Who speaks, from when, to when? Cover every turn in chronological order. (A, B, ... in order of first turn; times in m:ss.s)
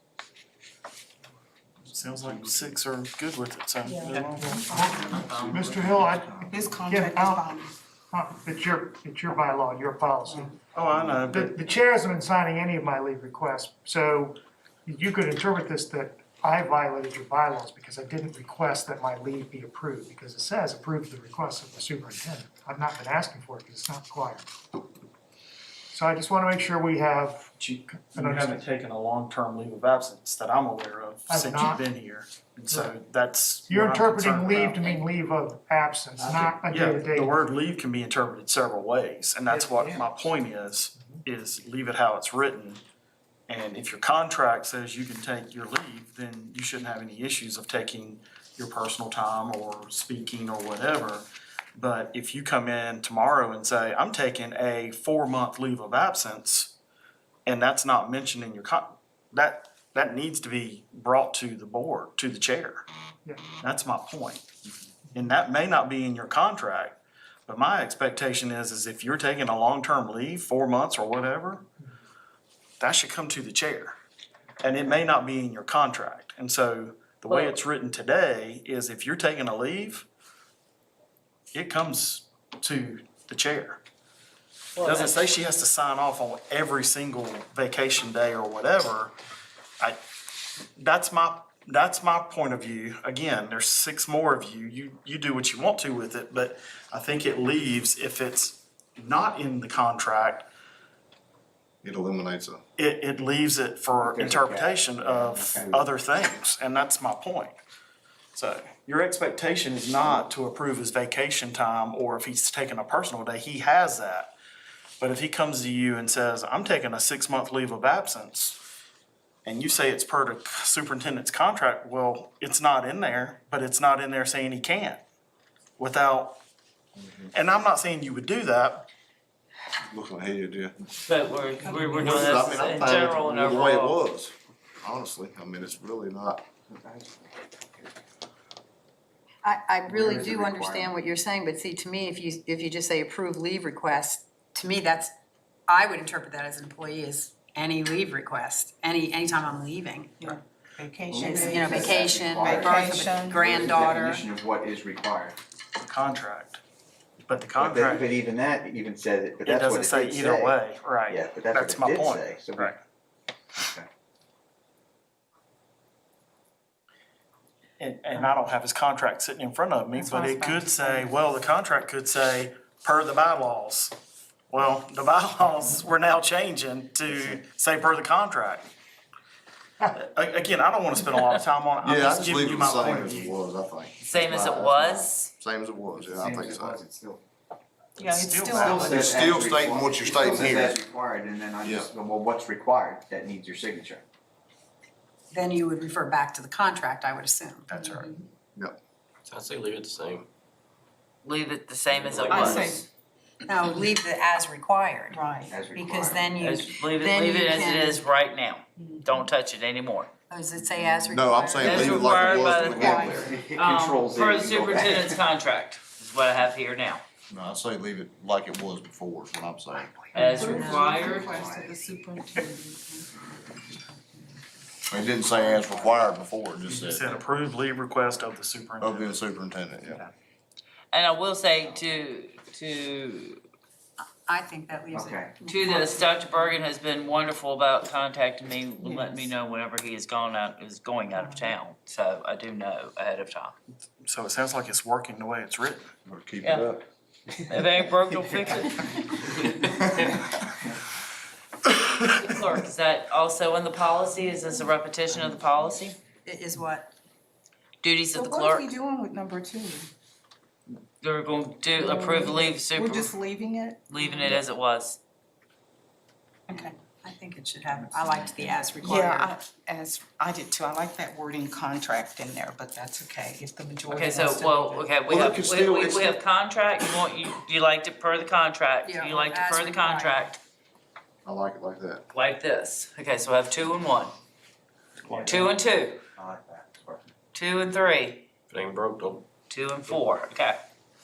0:01.8-0:04.6 A
0:03.8-0:04.2 B
0:04.3-0:07.4 C
0:05.0-0:05.7 D
0:06.4-0:07.7 B
0:08.1-0:10.6 C
0:10.7-0:11.6 A
0:11.3-0:24.5 C
0:25.9-0:27.5 C
0:27.6-0:34.9 A
0:28.1-0:28.6 C
0:31.3-0:31.8 C
0:33.7-0:37.4 C
0:36.7-0:42.8 A
0:43.5-0:56.7 A
0:57.4-1:02.8 A
1:03.6-1:04.5 A
1:05.1-1:11.6 A
1:12.8-1:14.0 A
1:14.6-1:20.0 A
1:17.3-1:17.6 D
1:21.5-1:23.8 A
1:24.8-1:25.1 D
1:24.8-1:29.1 A
1:30.8-1:40.5 A
1:41.8-1:42.6 E
1:42.8-1:47.6 A
1:43.9-1:45.9 F
1:48.3-1:54.3 A
1:55.0-1:58.6 A
1:59.4-2:05.0 A
2:05.8-2:06.4 A
2:07.3-2:08.9 A
2:09.9-2:10.7 E
2:11.0-2:14.0 D
2:11.7-2:12.2 B
2:11.9-2:16.4 E
2:16.7-2:17.3 F
2:19.4-2:25.1 G
2:19.9-2:20.9 F
2:25.7-2:30.4 G
2:30.2-2:33.9 B
2:31.1-2:35.4 F
2:31.4-2:34.2 G
2:35.8-2:36.6 A
2:37.3-2:38.2 A
2:37.6-2:40.6 F
2:39.4-2:42.8 A
2:41.1-2:42.7 F
2:43.6-2:43.9 F
2:47.8-2:54.0 A
2:50.0-2:51.0 B
2:54.5-2:58.7 A
2:59.9-3:03.4 A
3:01.8-3:06.8 E
3:04.0-3:05.3 D
3:04.3-3:04.6 F
3:06.0-3:07.2 F
3:08.0-3:09.3 G
3:08.0-3:09.2 A
3:08.5-3:14.0 F
3:09.0-3:10.8 E
3:11.6-3:11.9 E
3:15.3-3:18.0 G
3:17.7-3:18.1 A
3:19.2-3:20.3 H
3:21.2-3:22.8 D
3:21.9-3:22.8 H
3:22.3-3:22.7 G
3:23.5-3:28.0 G
3:25.1-3:25.6 B
3:25.5-3:26.4 F
3:26.4-3:30.1 D
3:30.3-3:33.4 G
3:31.1-3:33.2 E
3:31.6-3:37.0 D
3:32.6-3:35.2 F
3:37.3-3:39.9 E
3:40.1-3:43.1 B
3:40.1-3:41.3 D
3:40.5-3:41.8 F
3:44.9-3:47.1 E
3:45.6-3:46.1 F
3:46.6-3:49.2 A
3:48.8-3:50.0 E
3:50.9-3:53.4 D
3:54.2-3:56.2 G
3:54.9-3:55.3 F
3:55.5-4:03.5 D
3:58.8-3:59.3 B
4:04.0-4:05.9 A
4:06.0-4:06.8 E
4:07.4-4:09.3 D
4:12.0-4:16.0 D
4:16.2-4:16.9 G
4:17.8-4:18.7 D
4:18.1-4:19.9 B
4:21.0-4:23.1 D
4:21.8-4:24.4 B
4:23.9-4:25.0 D
4:26.5-4:29.3 G
4:28.8-4:34.9 B
4:33.9-4:40.4 D
4:35.1-4:36.1 E
4:38.8-4:40.2 G
4:41.2-4:42.0 E
4:42.1-4:44.1 D
4:45.0-4:45.4 A
4:45.1-4:45.5 F
4:45.2-4:46.0 D
4:46.2-4:47.1 F
4:47.3-4:48.2 D
4:48.5-4:49.2 H
4:49.5-4:50.6 D